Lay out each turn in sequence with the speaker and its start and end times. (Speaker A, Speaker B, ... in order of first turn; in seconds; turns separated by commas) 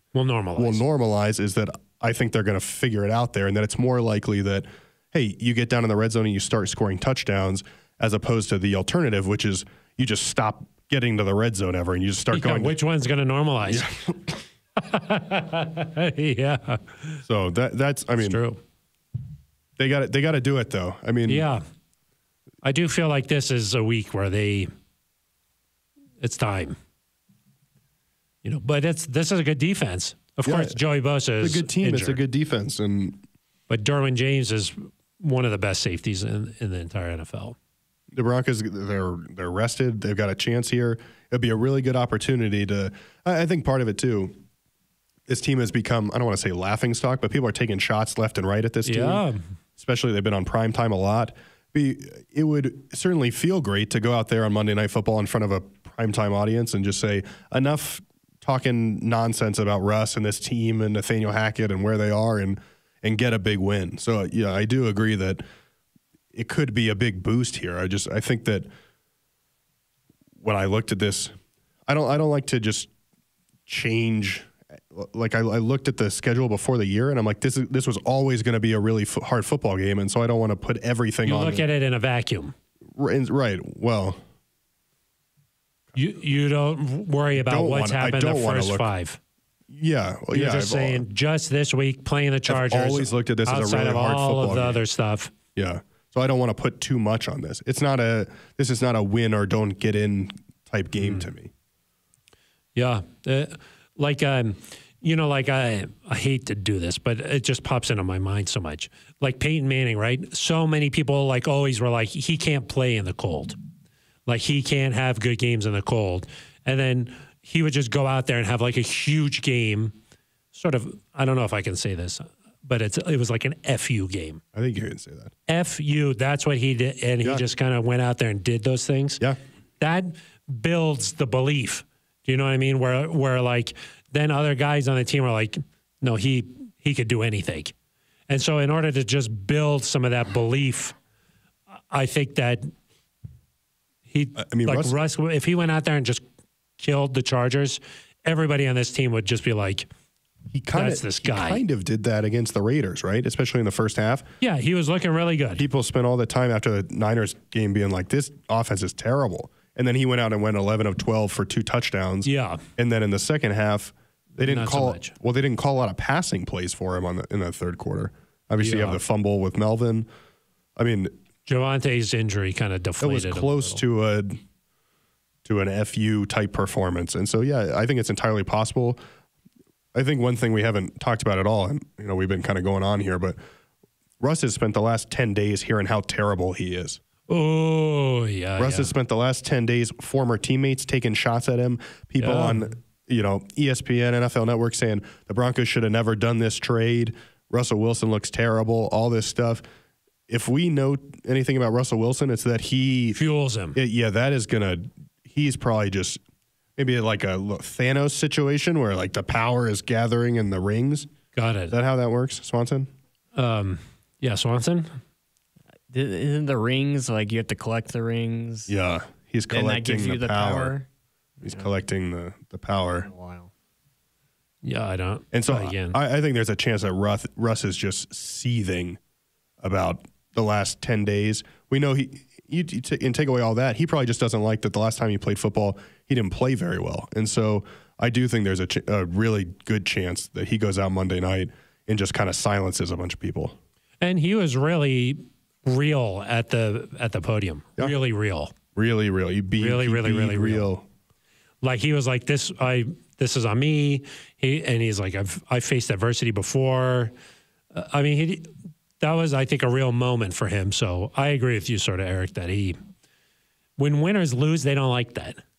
Speaker A: 0.1-0.8, Speaker B: 0.6-12.8, Speaker A: 12.3-13.8, Speaker B: 13.7-14.4, Speaker A: 14.8-17.2, Speaker B: 17.2-18.4, Speaker A: 18.2-18.6, Speaker B: 19.8-21.4, Speaker A: 21.3-21.6, Speaker A: 22.6-24.7, Speaker A: 26.2-26.8, Speaker A: 28.4-32.2, Speaker B: 30.4-30.8, Speaker B: 31.4-33.2, Speaker A: 33.7-37.5, Speaker B: 38.1-44.4, Speaker B: 45.3-49.2, Speaker A: 48.9-49.5, Speaker B: 49.8-65.4, Speaker B: 66.3-68.7, Speaker B: 70.4-71.3, Speaker B: 71.9-72.9, Speaker B: 73.7-81.7, Speaker A: 81.2-82.5, Speaker B: 83.0-84.2, Speaker A: 85.9-89.2, Speaker B: 87.3-88.9, Speaker B: 89.7-91.0, Speaker A: 90.3-95.3, Speaker B: 92.5-94.8, Speaker B: 95.5-101.5, Speaker A: 102.8-113.6, Speaker A: 114.3-119.9, Speaker A: 120.5-124.4, Speaker B: 124.5-125.3, Speaker A: 125.5-129.2, Speaker A: 129.8-137.7, Speaker A: 138.3-140.9, Speaker A: 141.9-142.7, Speaker A: 144.1-146.2, Speaker B: 144.3-144.9, Speaker A: 146.8-149.9, Speaker B: 150.5-154.3, Speaker A: 150.7-151.6, Speaker A: 154.4-155.6, Speaker B: 155.6-170.1, Speaker A: 162.2-162.6, Speaker A: 164.4-165.1, Speaker A: 168.6-169.0, Speaker B: 170.8-171.1, Speaker A: 171.4-173.8, Speaker B: 173.0-174.4, Speaker B: 175.4-179.0, Speaker B: 179.9-183.4, Speaker B: 184.2-187.0, Speaker A: 187.3-188.9, Speaker B: 188.6-199.6, Speaker A: 192.2-192.7, Speaker B: 200.3-203.2, Speaker A: 203.1-203.8, Speaker B: 203.7-206.2, Speaker B: 206.8-211.1, Speaker A: 211.3-211.7, Speaker B: 211.7-212.9, Speaker A: 213.3-215.0, Speaker C: 215.9-218.7, Speaker B: 218.7-220.8, Speaker C: 219.5-220.9, Speaker C: 221.4-221.7, Speaker B: 221.4-223.1, Speaker C: 223.0-223.5, Speaker A: 224.6-226.0, Speaker B: 225.3-229.0, Speaker B: 229.6-243.6, Speaker A: 244.0-248.5, Speaker B: 248.8-250.9, Speaker A: 249.6-250.7, Speaker A: 251.6-257.1, Speaker A: 257.7-262.8, Speaker A: 263.8-265.4